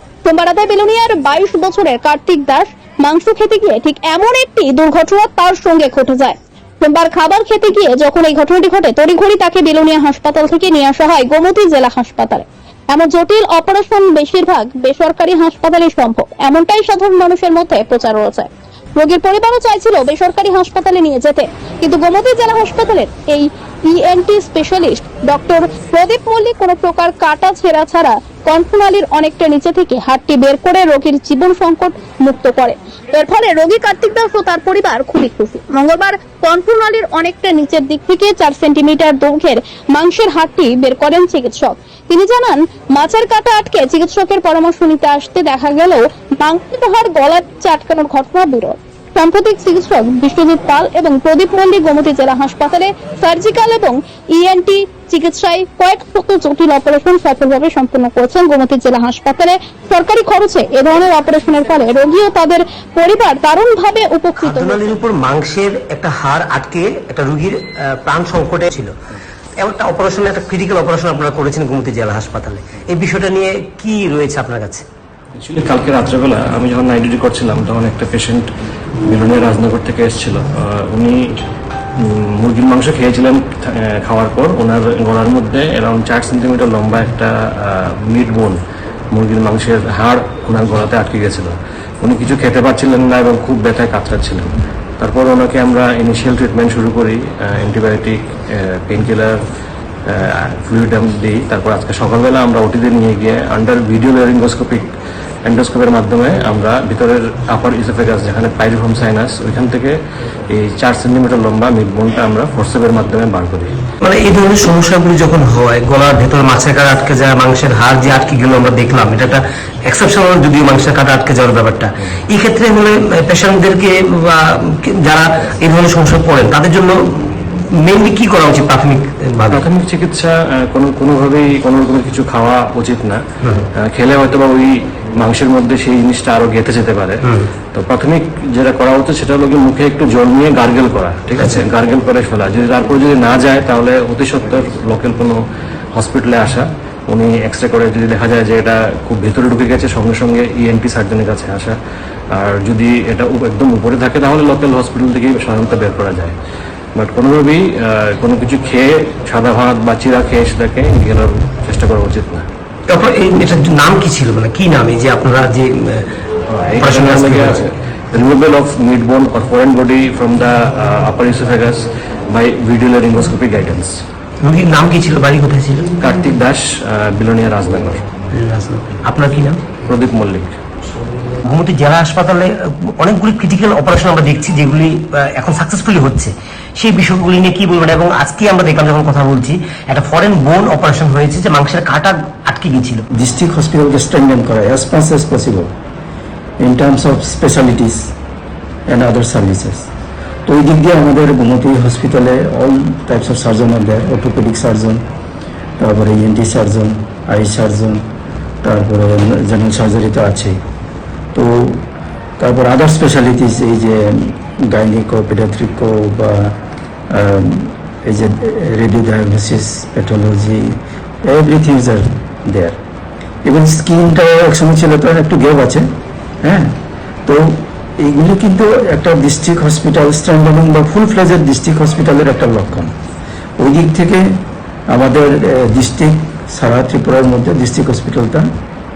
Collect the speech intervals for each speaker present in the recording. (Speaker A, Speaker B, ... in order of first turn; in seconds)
Speaker A: 0.2-64.8
Speaker B: 64.4-69.0, 69.6-74.8, 114.0-129.7, 141.4-141.7, 162.9-166.2, 166.8-167.6, 174.4-176.0, 178.3-179.7, 181.4-193.1
Speaker C: 75.3-78.5, 79.0-81.4, 82.0-88.6, 89.1-99.4, 100.1-104.9, 105.4-110.0, 110.5-113.7, 129.5-133.2, 133.8-145.4, 145.9-151.8, 152.3-156.4, 157.0-162.5, 166.5-174.0, 176.0-178.1, 179.8-180.6
Speaker D: 193.1-195.7, 196.6-198.1, 198.9-199.9, 200.5-205.0, 205.8-208.0, 208.6-210.6, 211.3-211.8, 212.4-216.6, 217.1-220.7, 221.3-222.8, 223.4-225.9, 226.4-232.9, 233.6-234.3, 234.9-238.5